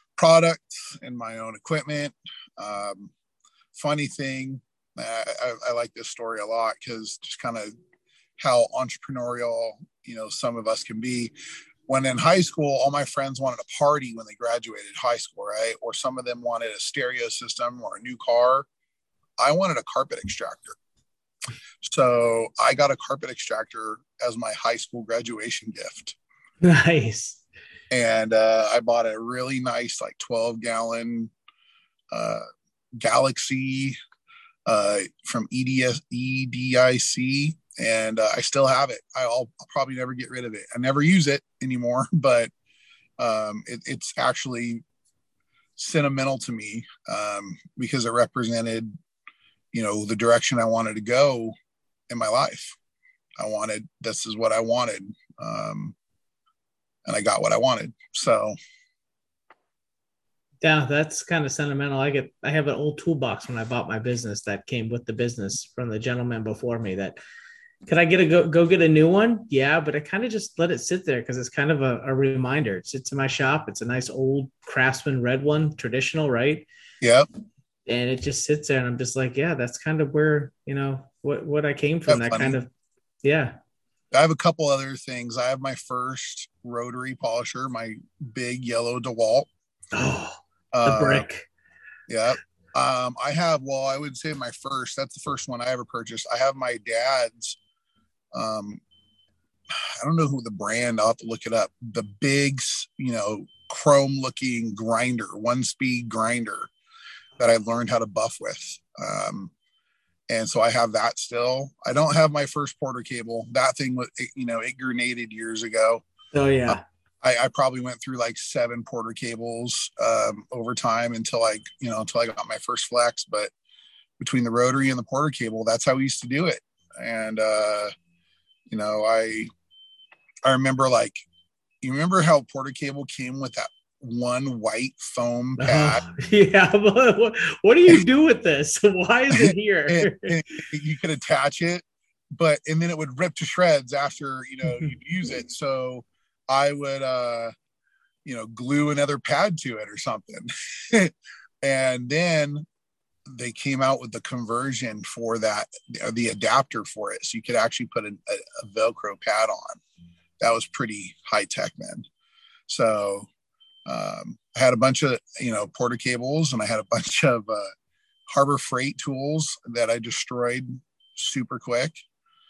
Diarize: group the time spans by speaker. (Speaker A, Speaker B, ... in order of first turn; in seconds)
Speaker A: 0.2-3.1, 3.7-7.7, 8.4-11.3, 11.9-18.7, 19.4-20.8, 21.8-26.1, 27.9-31.3, 32.1-32.4, 33.0-34.0, 34.6-42.5, 43.2-44.8, 45.8-48.9, 49.7-51.5, 52.1-52.7, 53.4-55.9, 57.0-58.5, 77.0-77.3, 82.1-82.5, 84.1-89.5, 90.7-91.2, 92.1-97.6, 98.3-98.8, 100.0-106.7, 107.4-109.5, 110.3-116.0, 116.7-123.5, 124.2-127.9, 128.7-129.5, 130.4-131.2, 131.8-136.0, 139.3-147.5, 148.2-152.6, 153.3-159.8, 160.4-162.1, 162.7-163.3, 163.9-167.7, 168.3-172.0
Speaker B: 26.6-27.4, 60.6-67.2, 67.8-76.7, 77.9-82.7, 83.2-83.5, 89.9-91.5, 116.3-116.8, 135.6-140.4